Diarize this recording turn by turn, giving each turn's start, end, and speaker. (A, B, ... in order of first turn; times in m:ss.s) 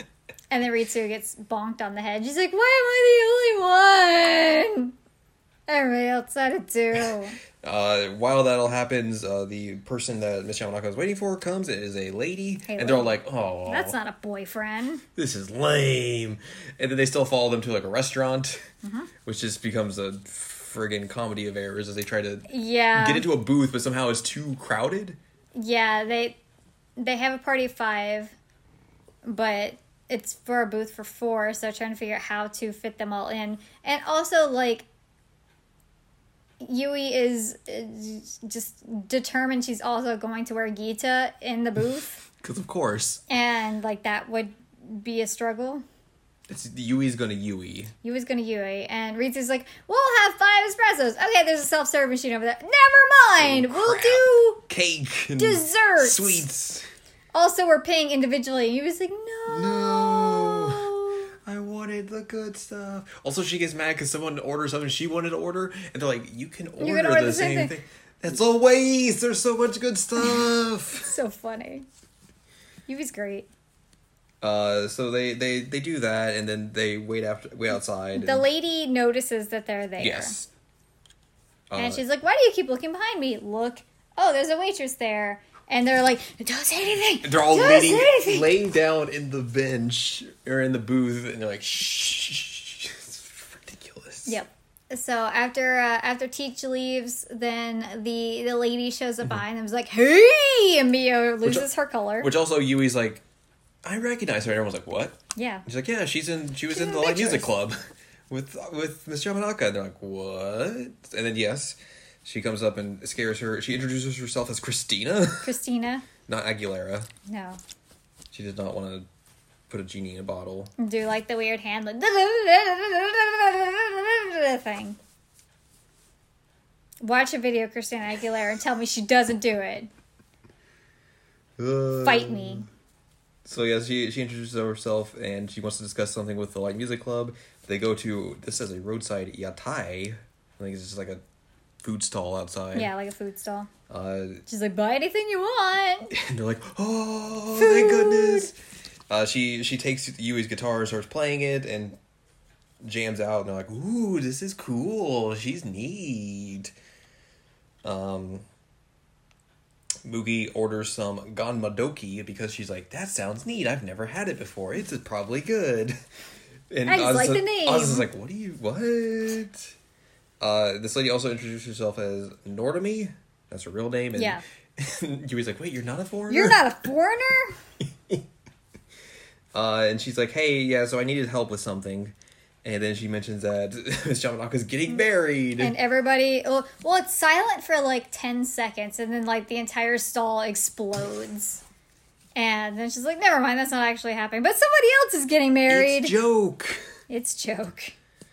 0:00.5-0:04.9 A
0:05.7-0:07.4 A
0:07.6-0:14.0 B
0:12.7-0:15.0 A
0:15.2-0:18.6 B
0:18.8-0:19.1 A
0:19.2-0:25.2 B
0:22.5-0:23.3 A
0:25.6-0:26.4 A
0:27.0-0:28.3 A
0:29.2-0:34.9 A
0:36.6-0:42.2 A
0:42.4-0:43.2 B
0:43.3-0:45.8 A
0:46.5-0:47.9 B
0:48.0-0:54.6 A
0:53.4-0:56.9 B
0:55.4-0:56.5 A
0:57.3-1:01.3 A
0:59.5-1:00.9 B
1:01.5-1:11.2 B
1:06.8-1:07.8 A
1:11.1-1:11.9 A
1:12.9-1:13.5 A
1:14.4-1:18.5 B
1:18.2-1:20.4 A
1:20.0-1:20.5 B
1:21.7-1:22.0 B
1:21.8-1:28.5 A
1:27.2-1:34.4 B
1:34.3-1:42.3 A
1:42.2-1:43.2 B
1:43.8-1:47.8 B
1:45.4-1:45.7 A
1:46.7-1:47.5 A
1:48.3-1:55.5 B
1:55.4-1:56.1 A
1:56.3-1:57.1 B
1:57.3-1:57.6 A
1:58.3-1:59.1 B
1:59.7-2:00.7 B
2:00.8-2:05.0 A
2:07.0-2:09.9 A
2:11.6-2:12.7 B
2:12.0-2:12.7 A
2:13.5-2:21.2 B
2:21.8-2:22.9 B
2:22.7-2:23.7 A
2:23.9-2:24.4 B
2:24.5-2:26.1 A
2:26.1-2:28.5 B
2:27.6-2:28.5 A
2:29.1-2:32.0 B
2:32.8-2:36.7 B
2:37.8-2:38.4 B
2:40.0-2:46.0 B
2:46.7-2:49.8 B
2:46.8-2:48.1 A
2:50.4-2:56.7 B
2:54.2-2:54.4 A
2:56.3-2:57.6 A
2:59.5-3:05.8 B
3:05.6-3:11.6 A
3:12.4-3:16.2 A
3:15.7-3:16.8 B
3:17.1-3:17.9 A